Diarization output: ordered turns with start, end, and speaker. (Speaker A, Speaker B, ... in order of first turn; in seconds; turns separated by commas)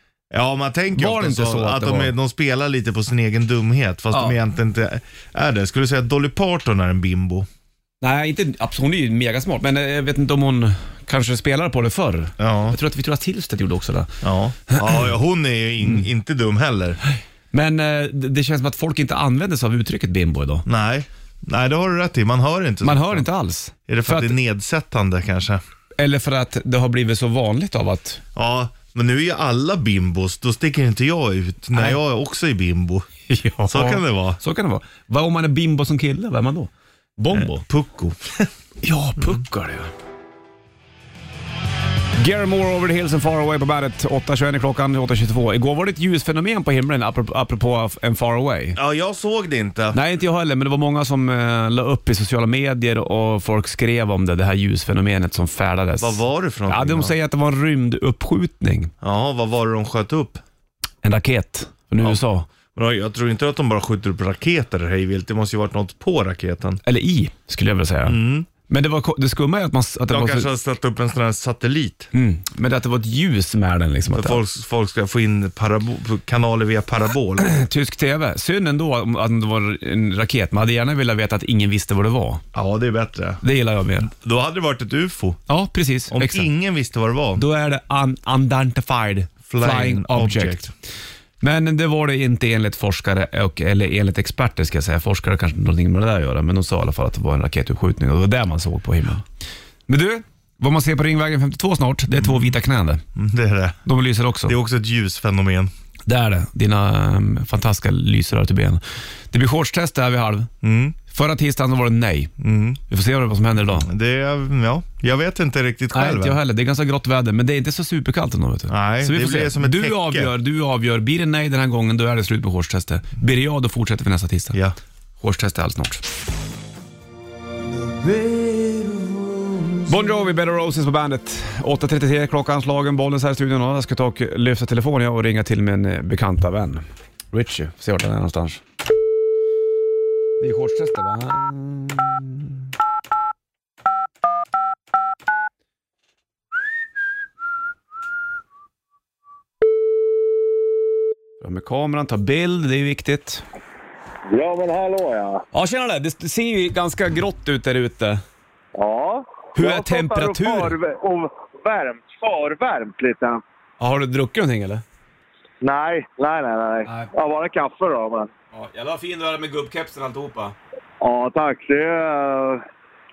Speaker A: 0.3-7.5, Speaker B: 0.9-2.1, Speaker B: 4.1-4.4, Speaker B: 8.0-15.0, Speaker A: 12.4-12.8, Speaker A: 14.2-17.0, Speaker B: 17.5-20.6, Speaker A: 20.6-23.3, Speaker B: 22.8-24.4, Speaker A: 23.9-25.6, Speaker B: 26.0-28.2, Speaker A: 28.3-33.0, Speaker B: 31.7-32.0, Speaker B: 33.3-37.6, Speaker A: 33.6-34.4, Speaker A: 37.3-38.5, Speaker B: 38.8-39.9, Speaker B: 42.2-48.8, Speaker A: 48.8-50.0, Speaker B: 49.9-58.9, Speaker A: 56.0-57.1, Speaker A: 59.0-60.4, Speaker B: 61.0-62.5, Speaker A: 62.7-66.8, Speaker B: 66.8-70.5, Speaker A: 68.0-68.5, Speaker A: 70.1-72.1, Speaker B: 72.1-74.4, Speaker A: 74.1-77.5, Speaker B: 77.4-82.4, Speaker A: 82.5-83.4, Speaker B: 83.4-84.1, Speaker A: 84.0-85.4, Speaker B: 85.5-86.5, Speaker A: 86.1-87.4, Speaker B: 87.4-90.6, Speaker A: 89.5-90.7, Speaker B: 91.4-99.2, Speaker B: 99.9-103.0, Speaker A: 102.2-102.5, Speaker A: 103.1-103.8, Speaker B: 103.8-104.5, Speaker A: 104.5-105.7, Speaker B: 106.1-110.5, Speaker A: 110.6-111.0, Speaker B: 111.1-112.3, Speaker A: 112.4-112.8, Speaker B: 112.9-113.9, Speaker A: 113.8-116.4, Speaker B: 115.9-124.6, Speaker A: 118.7-120.3, Speaker B: 125.2-126.0, Speaker A: 128.0-129.2, Speaker B: 129.8-138.6, Speaker B: 140.4-142.6, Speaker B: 151.4-153.4, Speaker C: 154.3-155.4, Speaker B: 155.5-158.2, Speaker C: 158.8-163.4, Speaker B: 159.5-160.8, Speaker B: 163.8-164.8, Speaker C: 165.6-168.3, Speaker B: 166.8-167.1, Speaker B: 168.5-170.6, Speaker C: 171.0-172.6